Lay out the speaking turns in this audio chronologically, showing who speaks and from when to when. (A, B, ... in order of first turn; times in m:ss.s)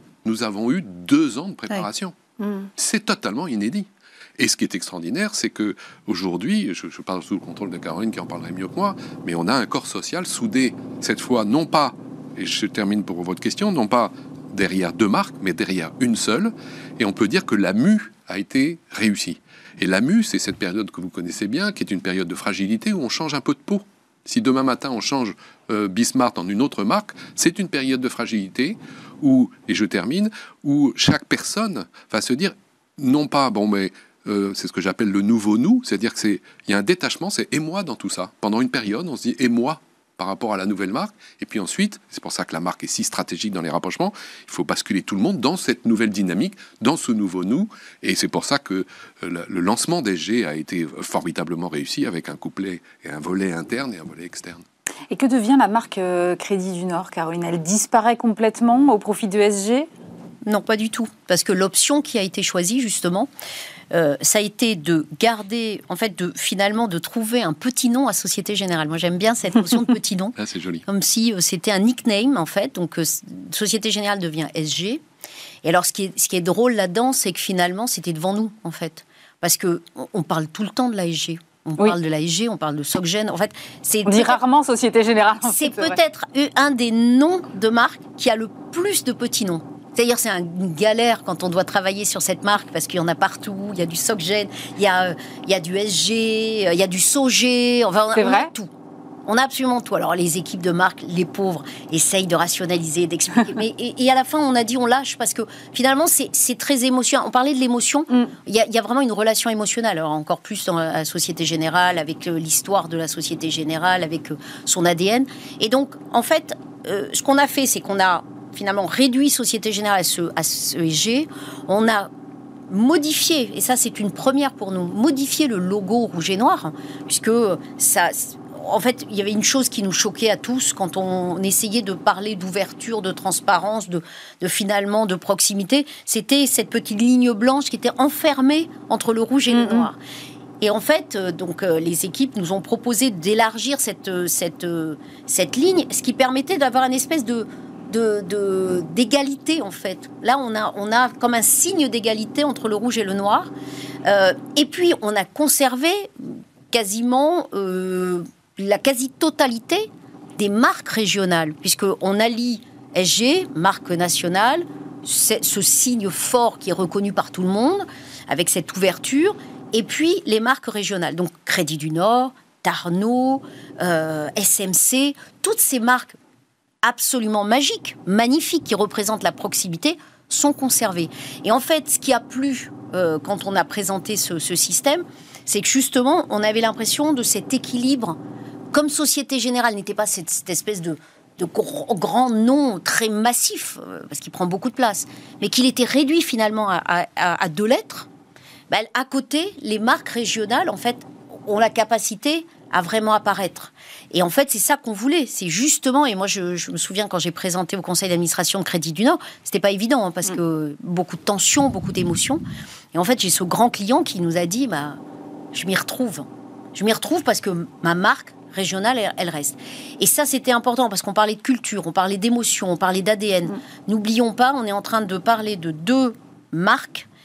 0:00.2-0:02.2 A
0:02.4-0:02.7 B
0:02.8-0:54.6 A
0:55.1-0:59.9 B
1:00.4-1:03.3 C
1:03.9-1:15.0 C
1:10.4-1:10.8 A
1:15.6-1:24.4 C
1:24.0-1:26.0 B
1:25.4-1:38.7 C
1:38.1-1:38.5 B
1:39.3-2:02.1 C
2:02.7-2:20.0 C
2:19.5-2:19.9 B
2:20.6-2:33.5 C
2:34.1-2:56.2 C
2:56.8-3:08.2 C
3:08.7-3:18.1 C
3:18.7-3:32.4 C
3:32.9-3:35.0 C
3:35.5-3:47.1 C